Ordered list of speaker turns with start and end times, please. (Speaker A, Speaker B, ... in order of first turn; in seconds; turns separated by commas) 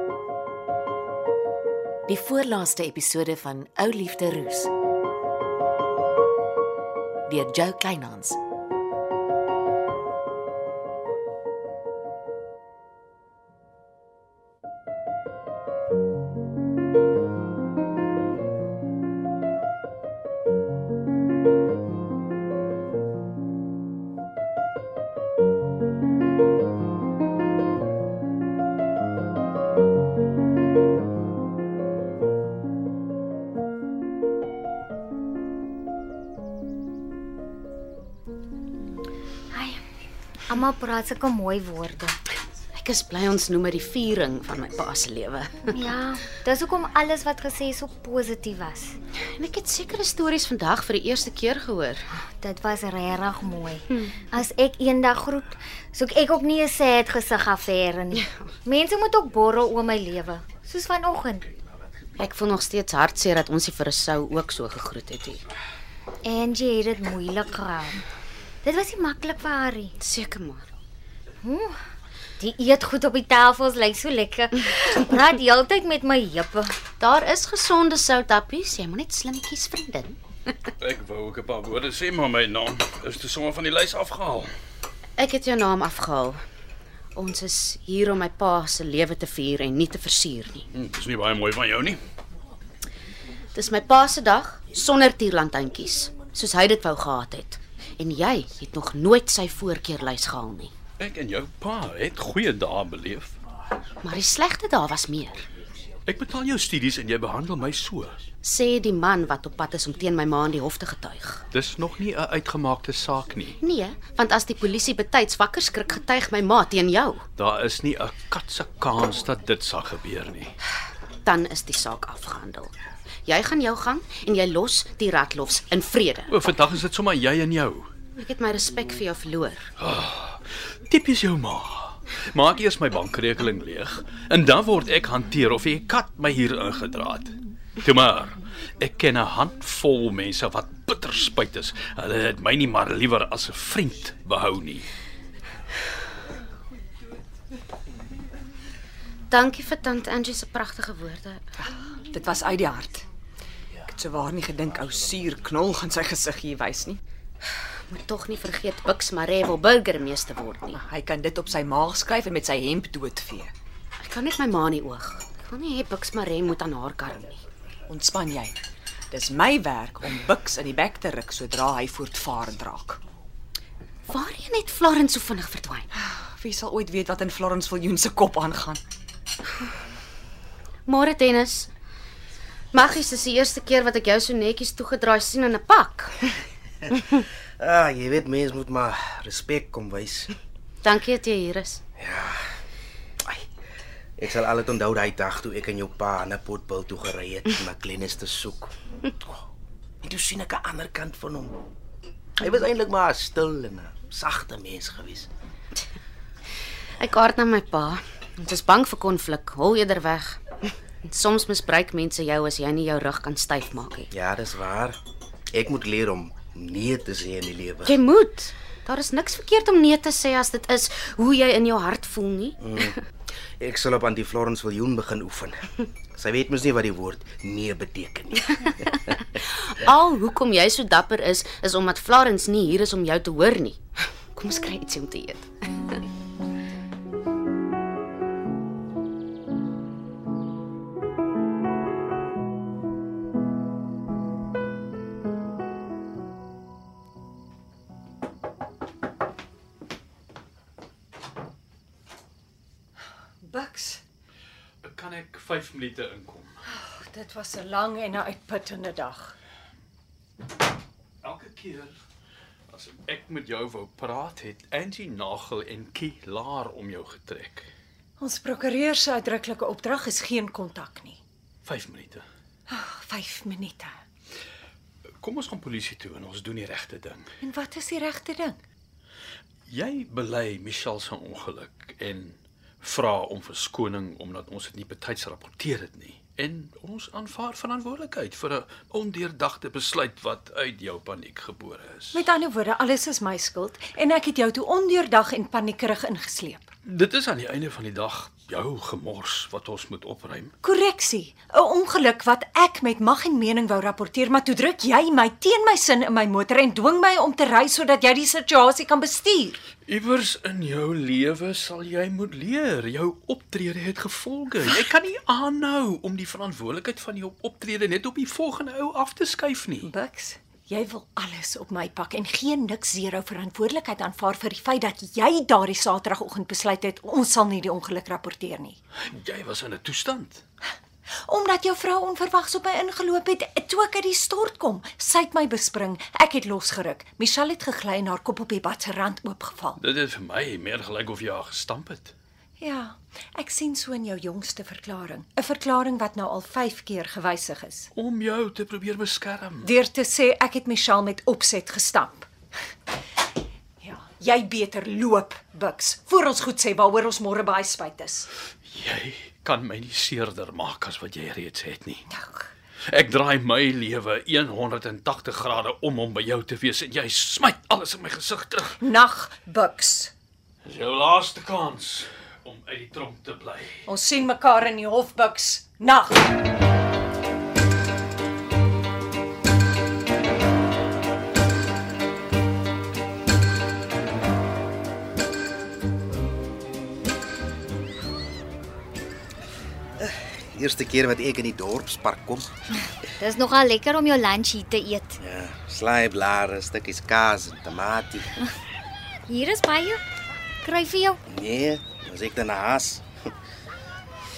Speaker A: 2.1-4.7, Speaker A: 7.3-8.4, Speaker B: 39.5-39.8, Speaker B: 40.5-42.2, Speaker C: 42.8-45.8, Speaker B: 45.7-49.0, Speaker C: 49.4-52.0, Speaker B: 52.4-61.5, Speaker C: 62.2-65.4, Speaker B: 66.2-68.0, Speaker B: 68.6-70.0, Speaker C: 70.0-70.7, Speaker B: 71.4-71.8, Speaker B: 72.4-76.8, Speaker C: 77.0-80.2, Speaker D: 80.8-84.5, Speaker C: 85.2-86.4, Speaker C: 87.2-90.7, Speaker D: 90.7-92.0, Speaker C: 93.5-100.7, Speaker D: 101.0-103.3, Speaker C: 104.0-105.5, Speaker D: 106.1-108.2, Speaker C: 108.4-111.4, Speaker D: 111.5-113.6, Speaker C: 113.6-117.2, Speaker D: 117.4-120.5, Speaker C: 121.2-122.7, Speaker C: 123.3-126.3, Speaker D: 126.3-127.9, Speaker C: 128.2-129.7, Speaker D: 129.8-144.9, Speaker C: 149.3-151.5, Speaker E: 151.6-153.1, Speaker E: 153.9-157.0, Speaker C: 157.9-160.8, Speaker E: 160.8-163.5, Speaker C: 164.0-167.4, Speaker E: 167.9-168.6, Speaker E: 169.1-173.0, Speaker C: 174.1-175.9, Speaker E: 176.0-178.8, Speaker C: 180.9-181.7, Speaker C: 182.7-186.2, Speaker F: 187.6-190.3, Speaker C: 190.8-191.8, Speaker F: 192.0-192.5, Speaker F: 194.2-198.7, Speaker F: 200.0-201.6, Speaker F: 202.4-205.3, Speaker C: 207.0-214.1, Speaker F: 214.1-215.0, Speaker F: 215.5-218.0, Speaker C: 217.8-222.6, Speaker F: 222.6-223.0, Speaker F: 223.6-228.6, Speaker C: 229.2-233.8, Speaker C: 234.3-235.9, Speaker G: 253.4-254.0, Speaker D: 254.8-256.5, Speaker G: 256.7-259.4, Speaker D: 261.2-262.0, Speaker D: 262.7-267.7, Speaker G: 268.2-271.2, Speaker D: 271.6-272.2, Speaker G: 272.7-273.9, Speaker D: 275.2-277.3, Speaker G: 277.4-278.6, Speaker D: 279.7-292.2, Speaker G: 292.1-296.7, Speaker D: 296.9-300.5, Speaker G: 300.6-309.6, Speaker D: 309.9-319.9, Speaker G: 319.8-328.8, Speaker D: 329.1-330.4, Speaker G: 331.3-339.8, Speaker D: 339.8-342.1, Speaker G: 342.6-347.9, Speaker D: 347.9-349.7, Speaker G: 349.6-352.3, Speaker G: 353.8-358.3, Speaker D: 358.7-362.0, Speaker G: 362.1-362.5, Speaker D: 362.9-368.8, Speaker G: 368.8-370.1, Speaker D: 370.6-373.8, Speaker G: 373.9-376.3, Speaker F: 390.0-392.5, Speaker B: 393.2-395.2, Speaker F: 395.2-398.3, Speaker B: 399.3-400.0, Speaker B: 400.6-401.2, Speaker F: 401.3-403.0